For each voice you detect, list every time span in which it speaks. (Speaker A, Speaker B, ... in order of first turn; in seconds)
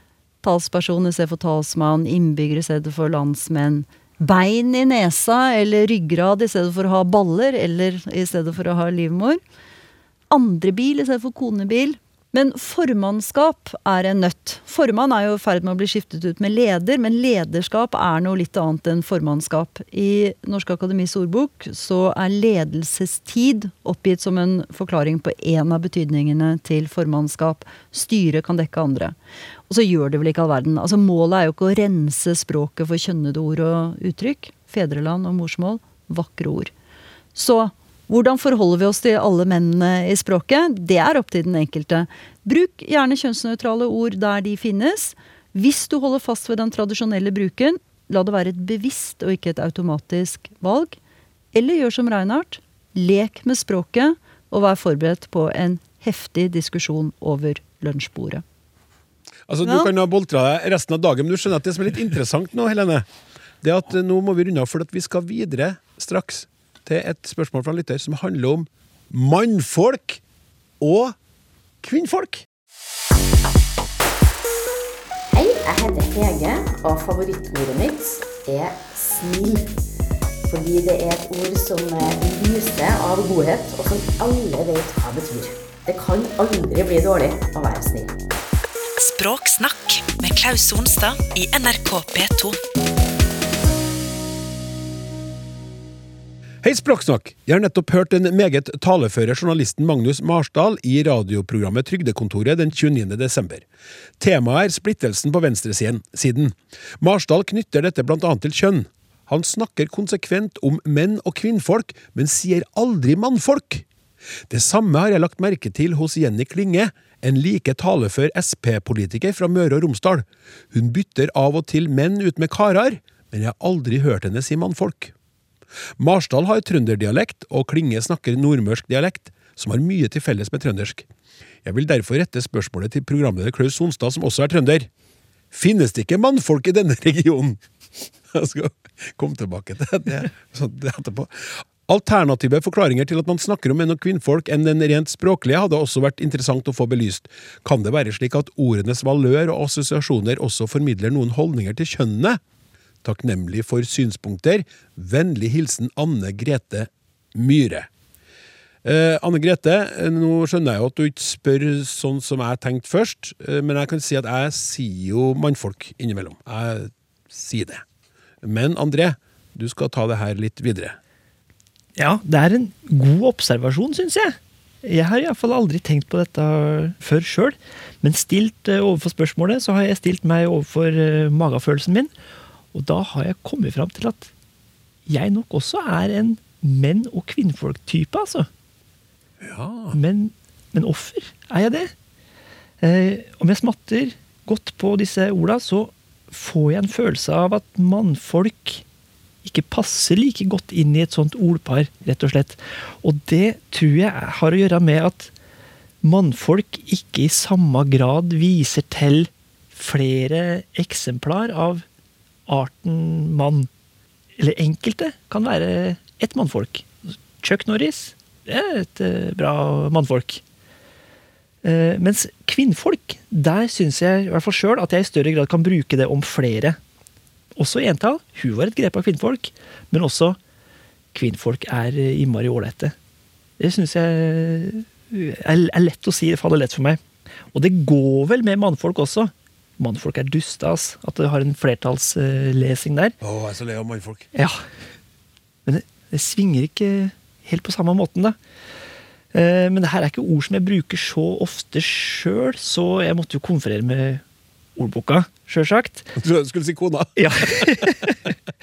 Speaker A: 0.4-9.4, 10.3-29.1, 29.7-36.7, 37.4-51.0, 51.5-58.4, 59.6-59.9
Speaker B: 59.5-63.1, 63.6-70.2, 70.8-71.2, 71.8-72.5, 96.6-103.7, 104.2-113.8, 114.5-125.1, 126.0-131.1, 131.6-134.9, 135.5-137.6, 138.3-141.3, 141.9-152.4, 153.0-157.9, 158.8-167.8, 168.4-171.0, 189.4-190.0, 243.2-244.2, 256.2-257.1
Speaker C: 75.3-79.7, 80.5-88.1
Speaker D: 89.0-92.6
Speaker E: 172.0-182.1, 182.7-184.3, 185.1-188.5, 189.9-191.9, 192.8-198.8, 199.4-205.3, 206.0-211.8, 212.5-213.7, 214.4-216.9, 217.4-220.4, 221.6-226.8, 227.6-230.4, 231.1-232.9, 233.6-237.0, 237.5-243.2, 244.3-244.6, 245.7-248.4, 249.3-254.2, 254.8-256.2, 257.2-258.3